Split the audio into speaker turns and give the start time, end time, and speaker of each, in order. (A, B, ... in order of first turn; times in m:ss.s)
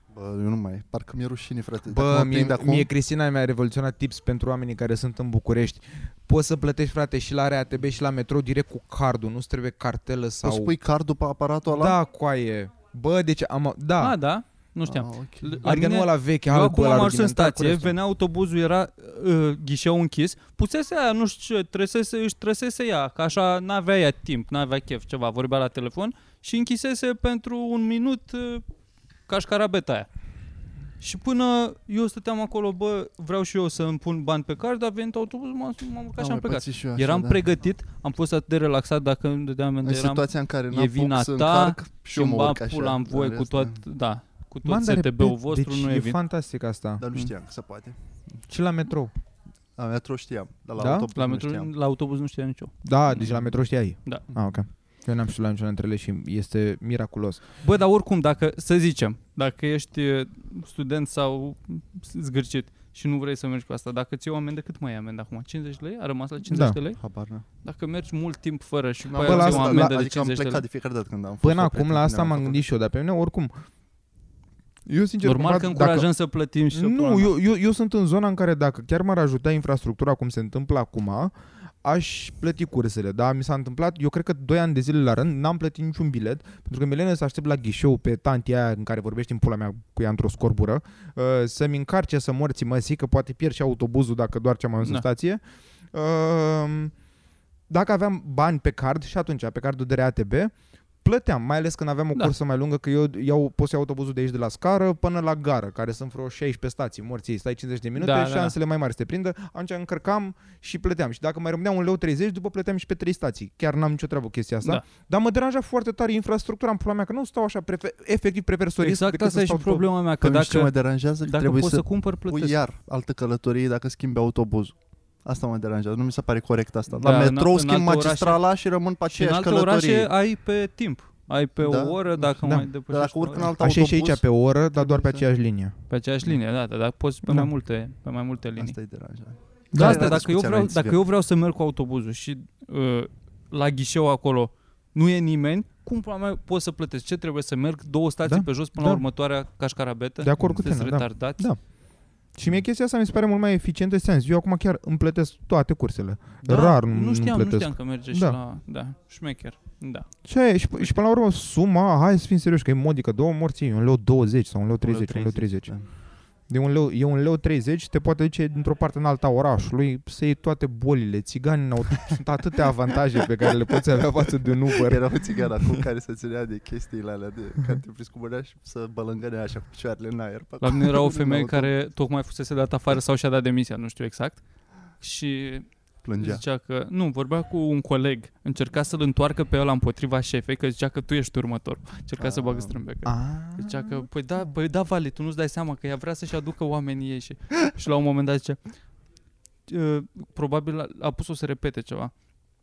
0:00.1-0:02.9 A
0:01.9-0:10.7 B
0:10.4-0:12.0 A
0:11.7-0:14.1 B
0:14.0-0:28.6 C
0:14.8-0:15.7 A
0:15.6-0:18.0 B
0:29.3-0:30.1 C
0:31.0-0:46.2 C
0:36.2-0:37.4 A
0:39.8-0:43.8 A
0:44.6-0:47.0 B
0:47.0-0:48.4 A
0:48.5-0:49.1 B
0:49.8-0:51.7 A
0:50.8-0:51.1 B
0:51.1-0:53.3 C
0:52.8-0:57.4 B
0:57.6-1:07.0 C
1:06.4-1:06.8 B
1:06.9-1:07.4 A
1:07.6-1:10.6 C
1:09.1-1:12.6 A
1:09.2-1:10.0 B
1:11.4-1:13.5 B
1:14.8-1:16.1 B
1:15.2-1:17.3 C
1:16.7-1:35.4 B
1:35.9-1:36.9 B
1:37.7-1:40.5 B
1:41.0-1:59.9 B
1:48.0-1:48.5 C
1:58.8-2:02.6 C
2:00.2-2:10.1 A
2:06.9-2:08.4 C
2:09.0-2:13.5 C
2:11.6-2:14.2 A
2:12.4-2:12.7 B
2:13.5-2:15.8 B
2:14.7-2:15.2 A
2:15.9-2:18.8 C
2:18.6-2:21.0 A
2:19.7-2:20.2 B
2:19.7-2:31.5 C
2:28.2-2:29.0 B
2:30.2-2:31.6 B
2:30.4-2:30.7 A
2:32.3-2:38.4 B
2:36.4-2:40.1 C
2:40.2-2:45.7 B
2:44.8-2:45.9 A
2:46.5-2:55.8 B
2:54.7-3:01.7 A
3:00.6-3:04.4 C
3:05.0-3:18.6 C
3:06.0-3:06.4 A
3:12.2-3:12.8 A
3:13.0-3:14.1 B
3:19.7-3:22.1 C